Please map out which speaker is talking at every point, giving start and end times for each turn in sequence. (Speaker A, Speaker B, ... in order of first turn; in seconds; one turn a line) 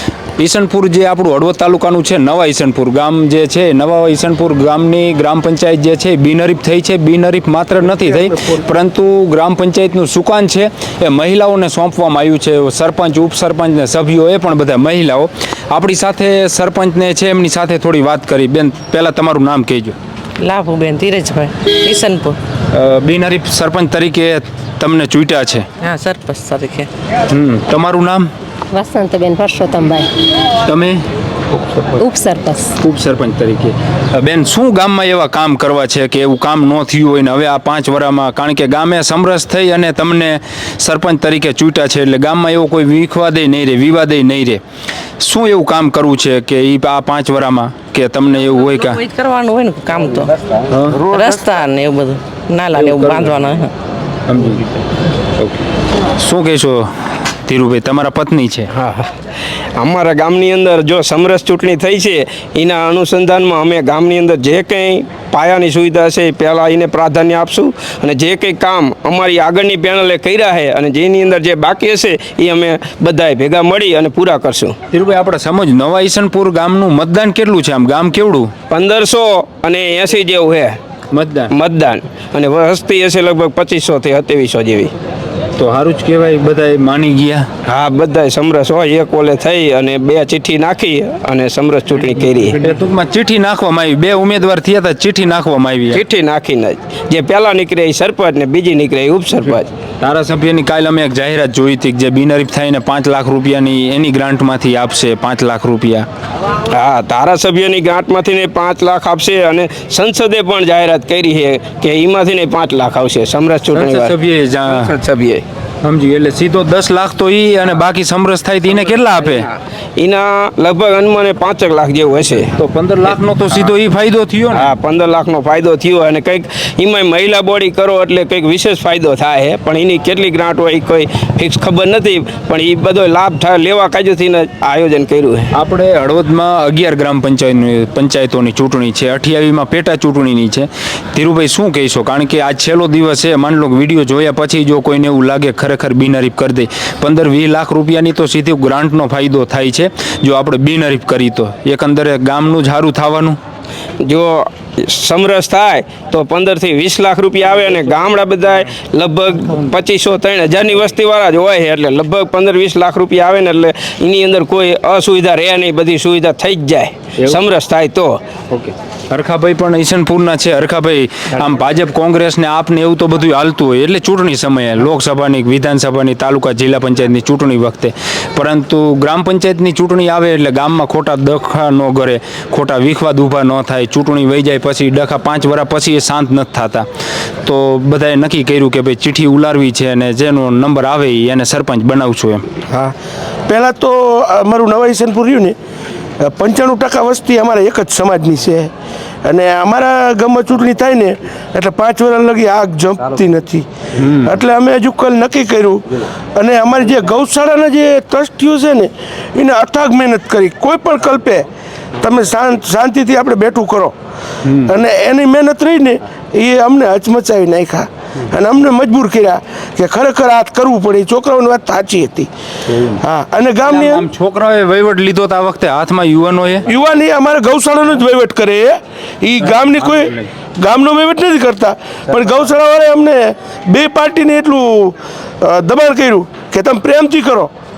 Speaker A: 0.4-19.9
Speaker B: 20.4-22.4
Speaker A: 22.7-25.6
Speaker B: 25.8-26.9
Speaker A: 27.3-28.3
Speaker C: 28.7-30.1
Speaker A: 30.6-31.0
Speaker A: 31.5-31.9
Speaker C: 32.0-32.7
Speaker A: 32.8-44.6
Speaker A: 45.2-49.0
Speaker B: 48.8-50.3
Speaker A: 50.7-51.1
Speaker B: 51.0-53.7
Speaker A: 52.7-53.5
Speaker A: 54.3-54.7
Speaker A: 55.4-58.7
Speaker D: 58.7-59.1
Speaker D: 59.8-74.7
Speaker A: 74.9-78.5
Speaker D: 78.7-80.8
Speaker A: 81.1-81.5
Speaker D: 81.5-84.9
Speaker A: 85.6-87.5
Speaker D: 87.7-92.6
Speaker A: 92.6-96.0
Speaker D: 95.9-99.7
Speaker A: 100.0-106.1
Speaker D: 106.7-114.1
Speaker A: 113.7-114.9
Speaker D: 114.7-115.4
Speaker A: 115.8-119.5
Speaker D: 119.2-122.5
Speaker A: 122.6-124.7
Speaker D: 124.5-135.5
Speaker A: 135.5-153.4
Speaker D: 154.0-168.2
Speaker A: 168.5-186.8
Speaker A: 187.4-192.4
Speaker E: 192.7-192.9
Speaker E: 193.5-195.6
Speaker E: 196.2-198.7
Speaker E: 199.2-211.5
Speaker E: 212.0-213.9
Speaker A: 214.4-214.7
Speaker E: 214.6-222.3
Speaker A: 222.7-223.0
Speaker E: 223.0-224.1
Speaker A: 223.6-226.7
Speaker E: 226.7-237.5
Speaker A: 229.5-230.3